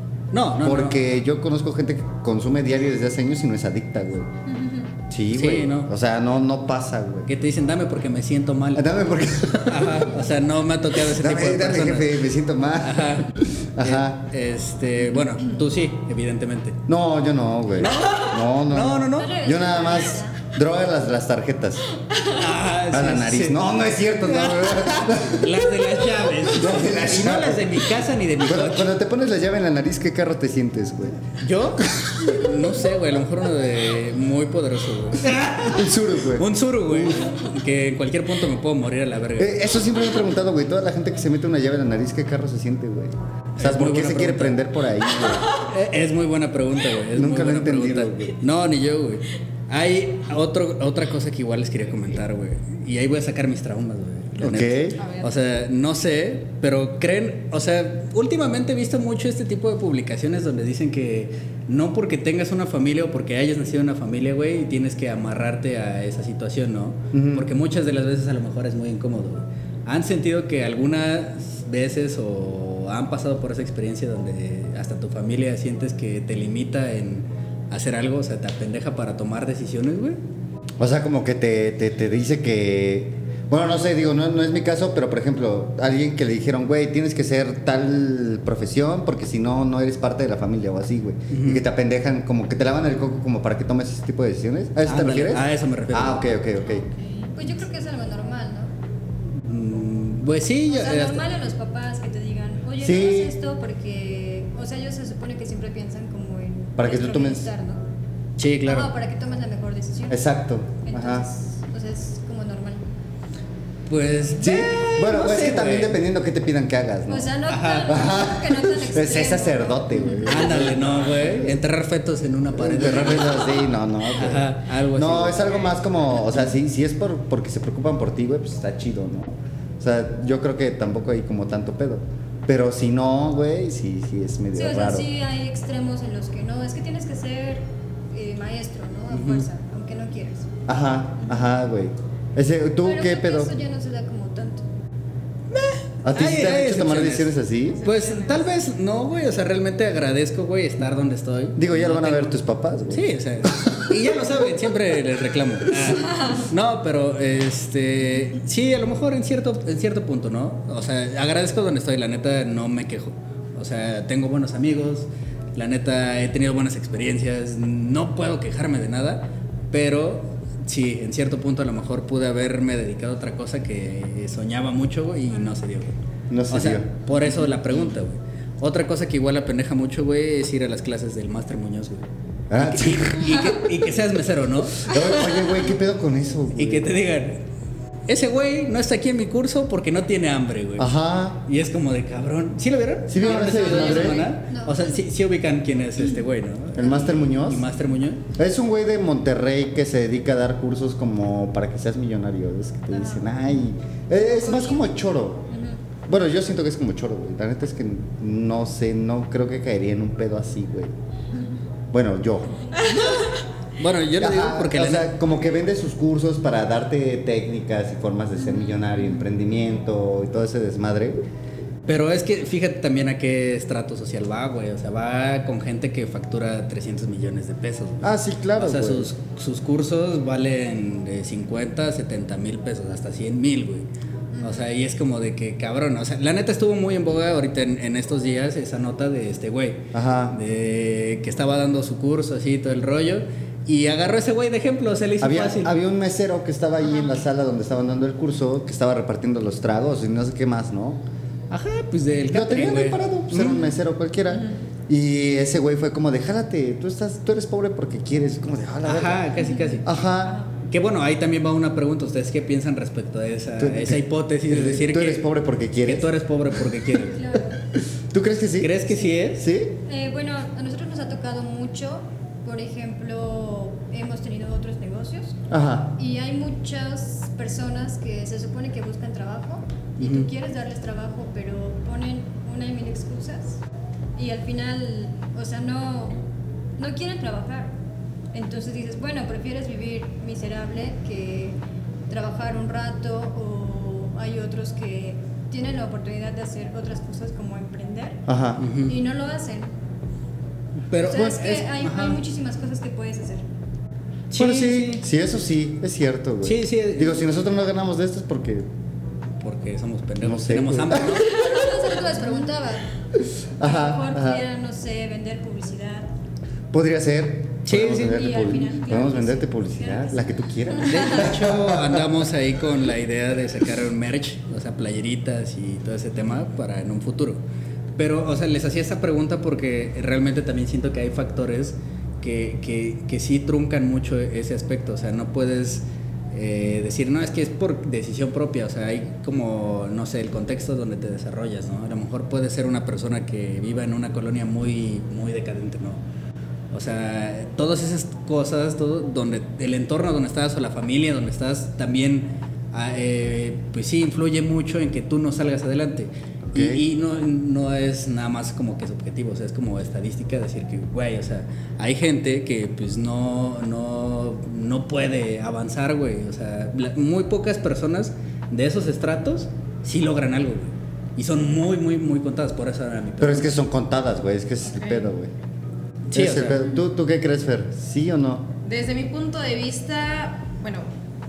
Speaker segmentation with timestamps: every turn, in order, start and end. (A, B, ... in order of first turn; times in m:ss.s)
0:00.3-0:01.0 A
0:00.6-0:04.3 B
0:04.5-0:04.9 C
0:05.1-0:07.3 B
0:05.3-0:05.9 A
0:07.3-0:08.9 A
0:08.8-0:10.1 B
0:09.7-0:12.2 A
0:11.0-0:14.2 B
0:12.8-0:16.8 A
0:16.9-0:21.8 B
0:17.8-0:19.4 A
0:19.1-0:20.4 C
0:22.1-0:22.4 D
0:22.3-0:23.6 A
0:22.9-0:25.7 B
0:24.2-0:28.9 A
0:26.4-0:27.8 B
0:28.4-0:31.3 B
0:31.4-0:39.6 A
0:31.9-0:32.5 B
0:35.6-0:37.5 B
0:39.4-0:45.6 B
0:43.6-0:44.6 A
0:45.5-1:20.2 A
0:47.1-0:48.4 B
0:54.4-0:55.0 B
0:55.0-0:55.3 D
1:07.1-1:07.5 B
1:20.8-1:36.8 B
1:31.3-1:31.6 A
1:34.8-1:36.3 A
1:36.7-1:37.4 D
1:37.3-1:38.7 C
1:39.4-1:41.3 A
1:40.7-1:47.8 C
1:42.8-1:43.3 B
1:46.8-1:47.5 B
1:48.4-1:48.9 A
1:48.6-1:50.2 C
1:50.1-1:51.3 B
1:50.8-1:52.8 C
1:53.9-1:56.0 A
1:54.4-2:01.6 B
1:57.1-2:00.4 C
1:57.5-1:58.0 A
2:00.2-2:05.7 A
2:02.5-2:15.1 B
2:14.5-2:20.5 C
2:19.1-2:19.4 A
2:20.7-2:23.5 B
2:22.8-2:24.6 C
2:25.5-2:32.3 A
2:26.0-2:27.9 B
2:27.7-2:28.5 D
2:31.6-2:33.9 B
2:32.9-2:55.9 A
2:56.3-2:56.9 B
2:56.5-3:02.0 A
3:02.5-3:03.5 B
3:02.6-3:05.6 A
3:04.8-3:06.9 B
3:06.6-3:07.4 A
3:08.1-3:10.9 A
3:10.8-3:11.4 B
3:11.4-3:18.2 A
3:13.1-3:14.3 B
3:13.2-3:15.0 C
3:16.8-3:17.7 B
3:18.3-3:25.5 B
3:22.9-3:23.2 C
3:24.2-3:24.9 C
3:25.5-3:25.8 C
3:26.1-3:30.9 B
3:31.9-3:32.8 B
3:32.9-3:35.3 A
3:34.2-3:41.2 B
3:41.8-3:53.8 A
3:48.0-3:49.1 B
3:54.3-3:54.7 C
3:54.4-4:05.7 A
3:59.9-4:00.4 B
4:05.2-4:11.0 B
4:11.5-4:13.7 A
4:12.3-4:20.4 B
4:18.8-4:19.9 A
4:19.4-4:20.4 C
4:20.6-4:25.2 A
4:23.6-4:26.6 B
4:25.8-4:27.2 A
4:27.1-4:27.6 C
4:27.6-4:29.8 B
4:28.6-4:29.4 A
4:29.8-4:35.4 C
4:35.5-4:35.9 B
4:36.0-4:43.6 C
4:40.0-4:40.3 A
4:44.2-4:46.2 C
4:46.8-4:47.7 C
4:48.3-4:51.6 C
4:52.1-4:58.2 C
4:58.3-4:58.6 B
4:58.6-4:59.0 A
4:58.8-4:59.7 C
5:00.9-5:02.2 A
5:01.0-5:03.4 C
5:04.3-5:05.0 A
5:04.3-5:08.7 B
5:06.4-5:07.2 A
5:09.4-5:11.4 A
5:10.2-5:11.5 B
5:11.3-5:12.9 C
5:13.2-5:14.4 B
5:13.6-5:16.1 C
5:16.7-5:22.1 B
5:17.6-5:18.4 A
5:18.0-5:21.2 C
5:20.8-5:27.4 A
5:28.0-5:46.0 A
5:46.7-6:13.5 A
5:56.5-5:56.8 B
6:13.2-6:15.3 B
6:14.7-6:15.1 D
6:16.1-6:16.6 A
6:16.1-6:18.5 B
6:18.6-6:20.9 D